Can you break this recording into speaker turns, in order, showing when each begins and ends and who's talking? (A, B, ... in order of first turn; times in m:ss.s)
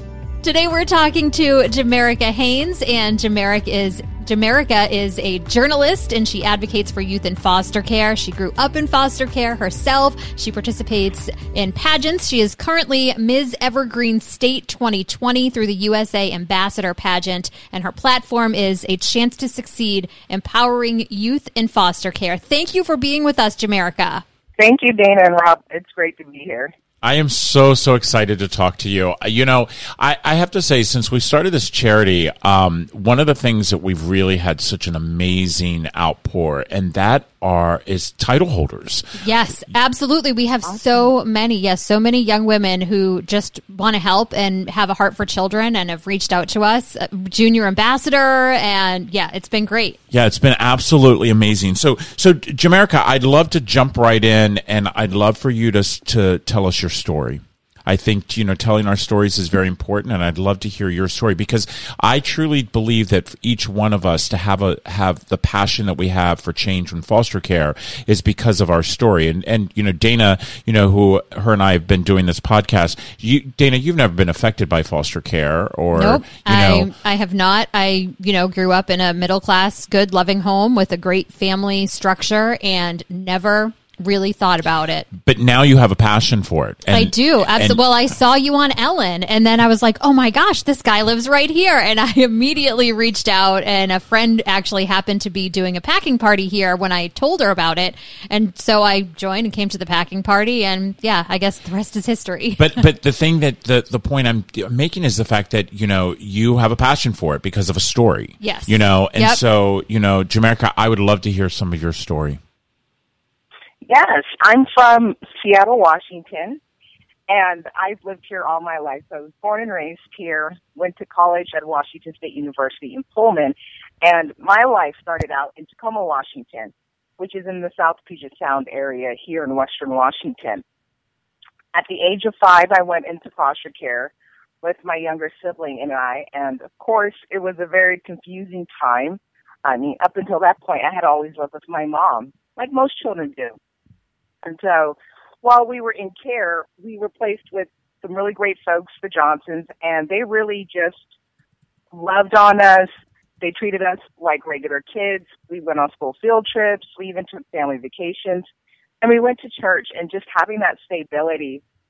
0:00.4-0:24.2 A
0:24.6-0:26.7 B
0:27.0-0:39.2 C
0:39.2-0:50.0 A
0:40.6-0:41.1 B
0:50.1-1:16.9 C
1:15.9-1:25.1 A
1:25.2-1:27.8 C
1:26.9-1:42.7 A
1:42.6-1:52.4 C
1:48.4-1:49.4 A
1:53.8-1:56.6 B
1:57.3-2:10.6 B
2:11.7-2:23.6 B
2:24.4-2:31.0 B
2:31.9-2:32.9 B
2:33.4-2:38.4 B
2:39.0-2:41.6 B